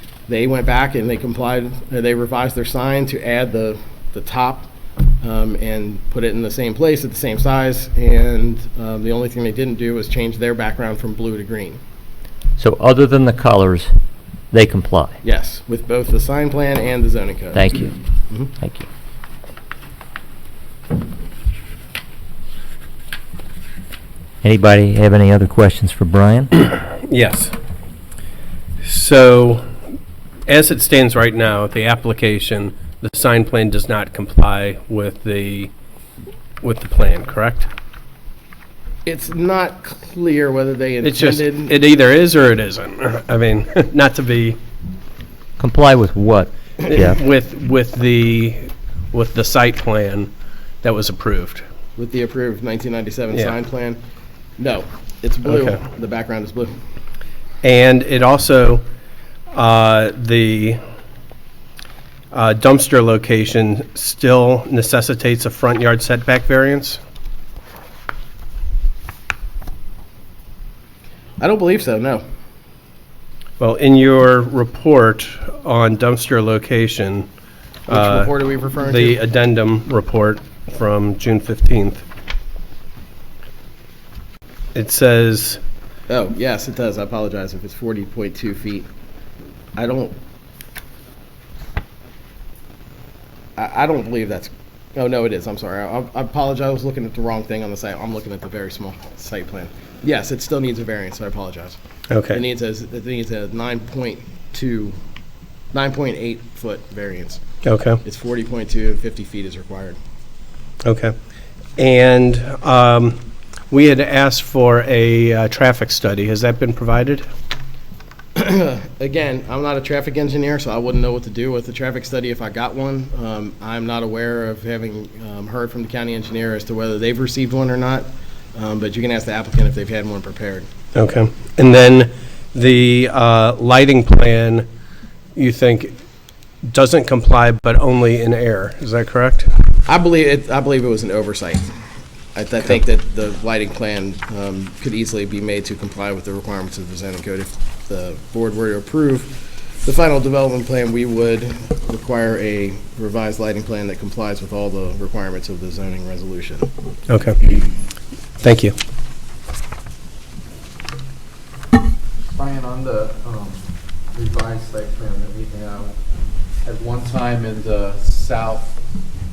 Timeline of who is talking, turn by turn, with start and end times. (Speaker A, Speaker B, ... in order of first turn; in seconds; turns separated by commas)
Speaker A: 0.3-11.8, Speaker B: 12.6-13.9, Speaker B: 14.5-15.2, Speaker A: 15.2-17.7, Speaker B: 17.5-18.0, Speaker B: 18.6-18.9, Speaker B: 24.4-26.5, Speaker C: 26.9-27.5, Speaker C: 28.8-29.7, Speaker C: 30.5-35.7, Speaker C: 36.6-37.7, Speaker A: 39.0-41.8, Speaker C: 41.0-44.6, Speaker B: 45.6-47.2, Speaker C: 46.9-50.3, Speaker C: 50.8-51.6, Speaker A: 52.0-54.0, Speaker A: 54.6-56.8, Speaker C: 55.5-55.8, Speaker C: 57.6-58.8, Speaker C: 59.5-60.8, Speaker C: 62.3-67.0, Speaker A: 71.4-72.2, Speaker C: 73.6-77.3, Speaker C: 77.9-82.0, Speaker A: 77.9-79.2, Speaker C: 84.7-85.6, Speaker A: 86.1-88.9, Speaker A: 89.7-90.1, Speaker A: 93.6-101.8, Speaker C: 102.1-102.4, Speaker A: 102.3-104.9, Speaker A: 105.7-107.4, Speaker C: 107.6-108.0, Speaker A: 108.0-110.0, Speaker C: 110.8-111.1, Speaker C: 111.8-113.2, Speaker C: 113.7-117.2, Speaker A: 118.3-130.7, Speaker C: 130.9-134.7, Speaker C: 135.3-135.9, Speaker C: 136.7-139.5, Speaker A: 139.9-141.7, Speaker A: 142.3-156.7, Speaker C: 157.1-157.6, Speaker C: 158.4-158.7, Speaker D: 162.3-165.9, Speaker D: 166.6-168.7